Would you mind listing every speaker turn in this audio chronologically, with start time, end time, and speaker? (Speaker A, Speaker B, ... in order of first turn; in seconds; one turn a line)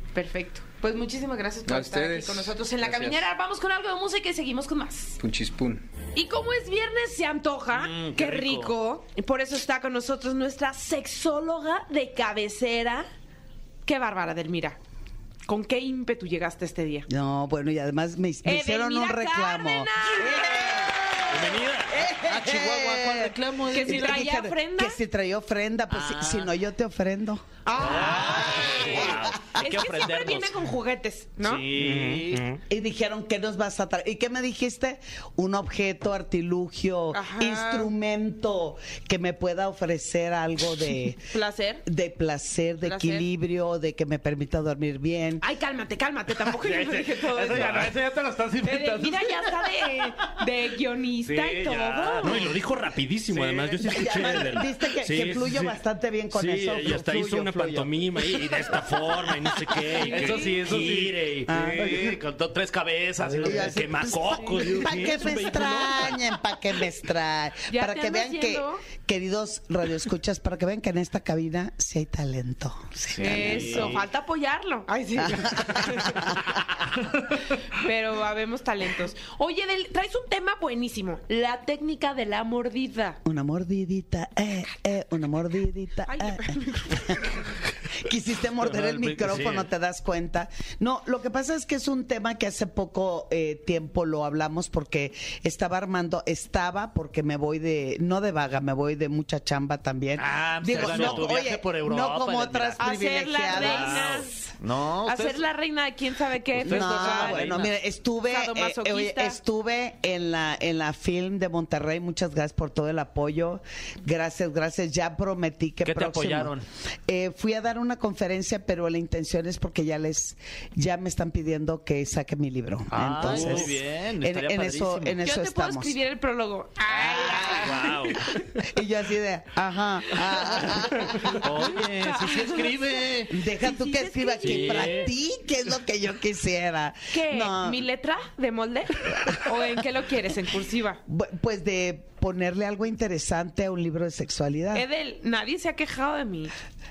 Speaker A: 0.1-5.2
Speaker B: 1.7-3.3
Speaker B: 5.2-5.8
Speaker A: 6.2-13.1
Speaker C: 7.7-8.7
Speaker A: 13.8-14.8
Speaker A: 15.5-17.1
Speaker D: 17.1-21.3
Speaker A: 18.4-22.1
Speaker E: 21.2-22.0
Speaker D: 21.9-27.5
Speaker C: 22.2-24.1
Speaker A: 23.7-25.0
Speaker C: 25.9-26.5
Speaker A: 27.6-31.7
Speaker C: 27.8-30.5
Speaker D: 28.1-29.6
Speaker E: 28.6-29.3
Speaker C: 31.4-32.4
Speaker E: 31.7-32.6
Speaker D: 32.7-41.2
Speaker A: 37.1-37.9
Speaker A: 41.3-41.9
Speaker D: 41.9-45.5
Speaker A: 42.8-43.3
Speaker A: 45.4-48.0
Speaker C: 46.6-49.7
Speaker E: 47.5-47.9
Speaker A: 48.6-52.5
Speaker C: 51.2-52.5
Speaker E: 52.2-55.8
Speaker C: 53.3-53.8
Speaker D: 53.8-57.9
Speaker E: 56.3-62.0
Speaker A: 59.8-60.7
Speaker C: 60.0-65.9
Speaker D: 61.5-62.2
Speaker E: 63.4-66.2
Speaker D: 63.4-74.0
Speaker A: 67.7-68.9
Speaker C: 73.2-74.0
Speaker A: 73.2-76.4
Speaker E: 73.5-74.0
Speaker D: 75.2-76.3
Speaker A: 77.7-83.2
Speaker D: 83.2-87.3
Speaker A: 86.1-87.1
Speaker D: 88.0-104.2
Speaker C: 88.6-89.7
Speaker C: 100.2-102.8
Speaker E: 100.7-101.3
Speaker A: 102.8-104.5
Speaker E: 103.5-104.2
Speaker C: 103.6-105.4
Speaker A: 105.0-107.7
Speaker C: 106.5-107.7
Speaker D: 106.6-116.5
Speaker A: 108.3-109.4
Speaker C: 115.8-116.7
Speaker D: 117.1-126.0
Speaker C: 122.9-125.2
Speaker A: 125.2-128.3
Speaker D: 126.9-128.0
Speaker C: 127.4-128.2
Speaker D: 128.7-131.4
Speaker A: 130.2-130.7
Speaker C: 130.6-133.4
Speaker A: 131.2-135.1
Speaker D: 133.3-137.8
Speaker E: 134.4-135.1
Speaker A: 137.1-141.0
Speaker D: 141.1-144.9
Speaker A: 144.7-146.5